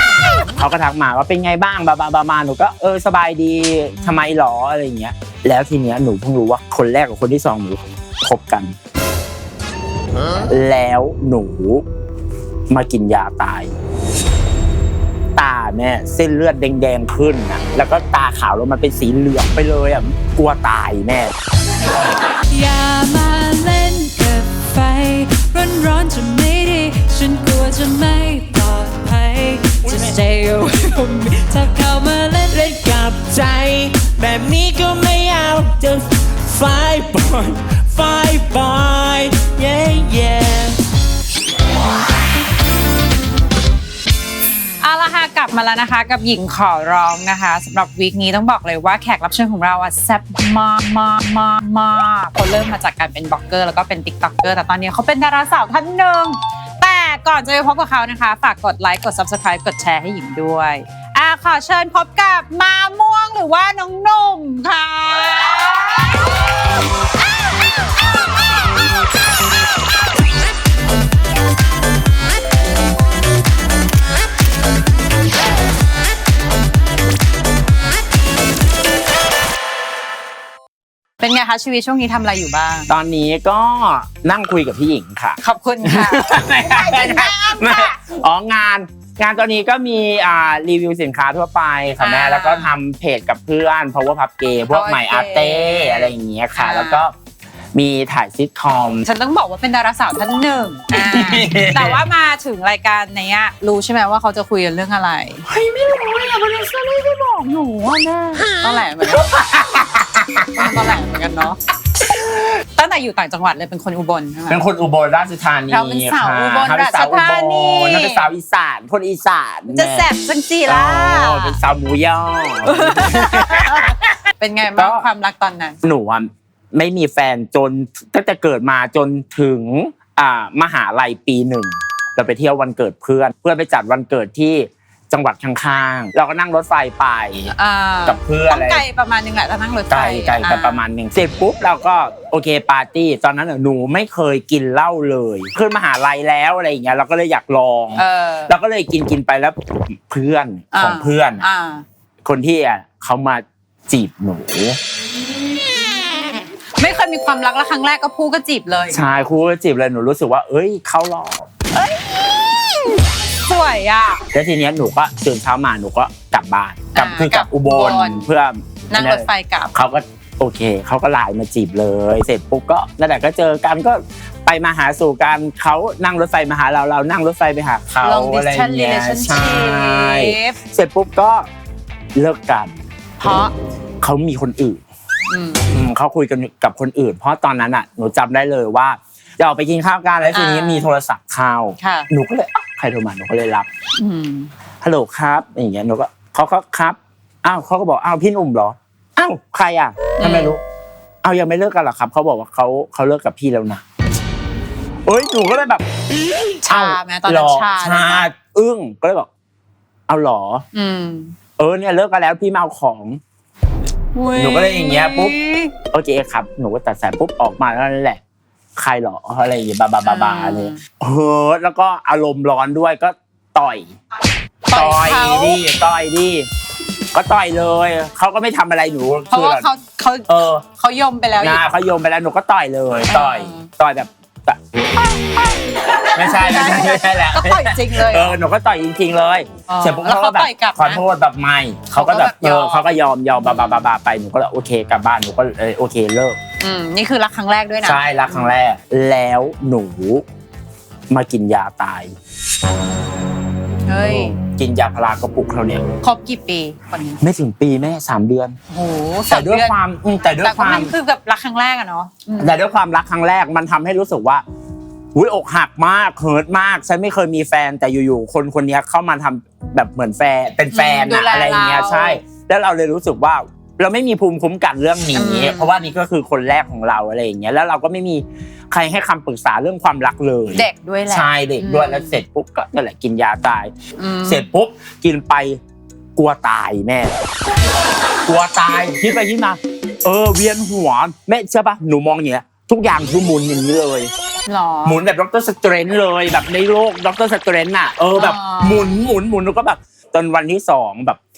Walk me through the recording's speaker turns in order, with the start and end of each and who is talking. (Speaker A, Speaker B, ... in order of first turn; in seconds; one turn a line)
Speaker A: 0.5-8.8
Speaker A: 10.5-11.8
Speaker A: 12.7-13.7
Speaker A: 15.4-21.3
Speaker B: 22.5-32.8
Speaker A: 29.8-30.2
Speaker A: 32.5-40.8
Speaker C: 44.8-66.2
Speaker C: 81.2-82.9
Speaker A: 82.9-97.1
Speaker C: 85.4-88.0
Speaker C: 92.0-92.8
Speaker C: 94.7-97.1
Speaker A: 97.8-99.1
Speaker C: 99.0-105.5
Speaker A: 100.9-102.0
Speaker A: 105.5-110.7
Speaker C: 108.6-109.3
Speaker C: 110.6-111.6
Speaker A: 112.0-112.6
Speaker C: 112.8-114.6
Speaker A: 114.5-120.1
Speaker C: 115.7-118.3
Speaker C: 119.7-121.6
Speaker A: 120.7-124.0
Speaker C: 122.7-125.8
Speaker A: 124.8-125.1
Speaker A: 125.8-137.5
Speaker C: 137.5-140.8
Speaker A: 138.1-138.8
Speaker A: 139.9-151.5
Speaker C: 147.9-148.5
Speaker C: 150.7-151.8
Speaker A: 152.2-154.8
Speaker C: 156.8-159.1
Speaker A: 158.9-161.5
Speaker C: 163.4-164.2
Speaker A: 164.3-181.5
Speaker C: 166.9-168.3
Speaker C: 168.9-169.7
Speaker C: 178.0-180.6
Speaker A: 182.2-182.8
Speaker C: 183.2-183.5
Speaker A: 184.0-184.8
Speaker C: 185.3-185.7
Speaker A: 185.7-193.7
Speaker C: 190.3-190.9
Speaker C: 191.8-192.1
Speaker C: 194.0-194.5
Speaker A: 194.8-200.6
Speaker C: 200.2-200.6
Speaker A: 201.2-203.8
Speaker A: 205.1-205.9
Speaker A: 206.4-209.3
Speaker C: 206.6-208.3
Speaker A: 210.1-210.7
Speaker C: 210.7-211.3
Speaker A: 211.6-213.2
Speaker C: 214.2-215.7
Speaker A: 214.3-215.4
Speaker A: 215.9-218.2
Speaker A: 218.8-223.9
Speaker C: 220.0-220.8
Speaker C: 224.7-225.6
Speaker A: 224.7-226.5
Speaker A: 227.1-229.7
Speaker C: 229.3-231.6
Speaker A: 230.3-230.6
Speaker A: 231.4-234.6
Speaker C: 233.1-233.7
Speaker C: 235.1-238.4
Speaker A: 236.1-246.4
Speaker C: 239.7-241.0
Speaker C: 241.9-242.9
Speaker C: 243.4-243.9
Speaker C: 246.6-248.5
Speaker A: 247.8-250.2
Speaker A: 251.1-252.1
Speaker C: 253.9-254.4
Speaker A: 254.0-255.8
Speaker C: 256.0-257.2
Speaker A: 257.2-258.6
Speaker C: 258.7-259.8
Speaker A: 259.3-260.9
Speaker C: 260.4-262.6
Speaker A: 262.4-264.4
Speaker A: 265.1-283.7
Speaker C: 270.7-272.2
Speaker C: 275.1-275.9
Speaker C: 280.6-282.2
Speaker C: 284.0-284.5
Speaker A: 284.2-285.6
Speaker A: 286.2-287.2
Speaker A: 288.3-294.1
Speaker C: 294.5-295.0
Speaker A: 294.8-301.2
Speaker C: 298.1-299.0